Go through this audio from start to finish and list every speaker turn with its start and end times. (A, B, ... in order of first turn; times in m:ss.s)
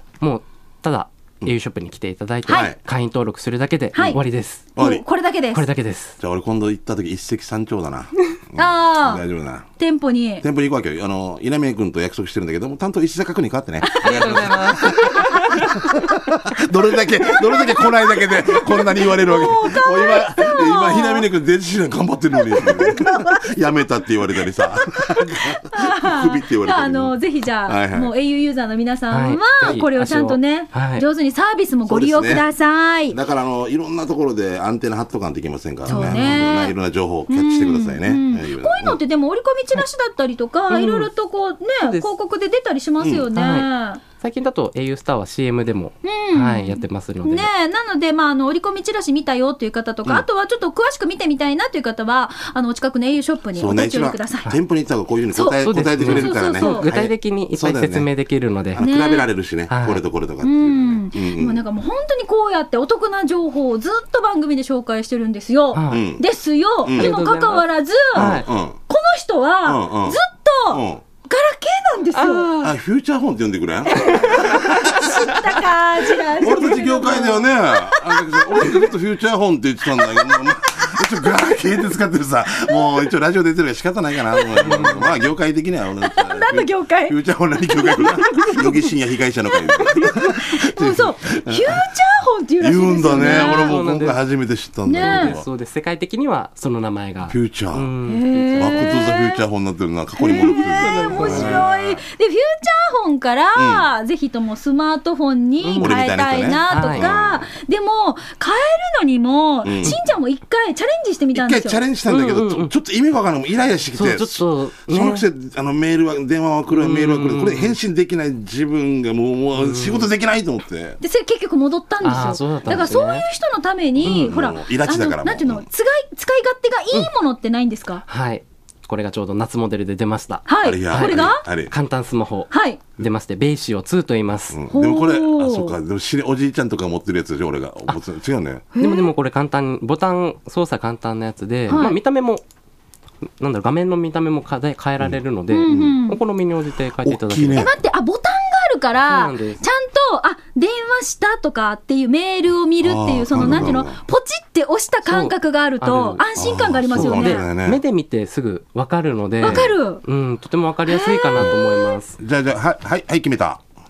0:00.2-0:04.7 A
0:02.5-0:02.8 B
0:03.9-0:04.2 C
0:04.8-0:05.0 B
0:04.8-0:05.6 C
0:05.5-0:06.2 A
0:06.2-0:09.7 B
0:08.6-0:09.2 C
0:09.8-0:10.4 C
0:10.4-0:28.1 B
0:13.8-0:14.2 C
0:14.0-0:15.4 A
0:14.8-0:16.0 C
0:17.3-0:21.3 C
0:22.4-0:23.5 C
0:24.6-0:33.2 C
0:29.1-0:31.0 A
0:31.9-0:32.5 B
0:33.1-0:39.0 B
0:35.9-0:36.4 A
0:35.9-0:36.7 C
0:37.3-0:44.0 C
0:40.7-0:41.1 A
0:41.8-0:42.1 A
0:43.0-0:43.3 B
0:43.3-0:47.5 A
0:46.0-0:54.5 C
0:53.6-0:58.1 B
0:55.3-0:56.9 C
0:55.6-0:58.8 A
0:58.7-1:01.6 B
0:58.8-0:59.3 C
0:59.7-1:00.0 A
1:00.4-1:12.5 C
1:05.7-1:06.0 A
1:05.9-1:06.2 B
1:06.8-1:07.1 B
1:06.9-1:08.5 A
1:08.2-1:08.8 B
1:09.6-1:11.0 B
1:12.1-1:12.7 A
1:12.6-1:15.4 B
1:14.0-1:14.7 A
1:14.1-1:18.9 C
1:16.4-1:31.8 B
1:20.0-1:20.5 C
1:24.3-1:24.8 C
1:24.6-1:25.1 A
1:26.0-1:28.9 C
1:29.5-1:33.8 C
1:32.6-1:35.5 B
1:33.1-1:34.2 A
1:34.9-1:35.4 C
1:34.9-1:39.0 A
1:37.3-1:37.9 B
1:38.1-1:39.4 C
1:38.5-1:42.0 B
1:40.2-1:51.8 C
1:40.3-1:41.7 A
1:43.6-1:43.9 B
1:45.6-1:46.0 A
1:45.8-1:47.5 B
1:46.7-1:47.1 A
1:49.6-1:50.0 B
1:51.3-2:01.0 B
1:52.1-1:52.7 A
1:53.9-1:55.2 A
1:56.7-1:57.8 A
1:59.6-2:00.1 A
2:01.0-2:08.0 C
2:02.0-2:03.2 A
2:04.0-2:05.7 B
2:04.0-2:04.3 A
2:08.1-2:14.6 A
2:10.5-2:11.5 C
2:10.6-2:11.7 B
2:12.5-2:12.8 C
2:14.5-2:18.6 B
2:14.7-2:15.8 C
2:18.8-2:19.1 C
2:18.8-2:22.4 A
2:21.7-2:22.0 C
2:23.4-2:27.7 A
2:25.0-2:26.0 B
2:25.5-2:26.2 C
2:27.0-2:27.7 B
2:27.5-2:37.5 C
2:29.1-2:29.6 A
2:32.8-2:34.0 B
2:35.1-2:36.2 A
2:36.4-2:37.8 B
2:36.9-2:42.2 A
2:39.4-2:40.0 C
2:40.9-2:42.0 C
2:42.2-2:43.6 B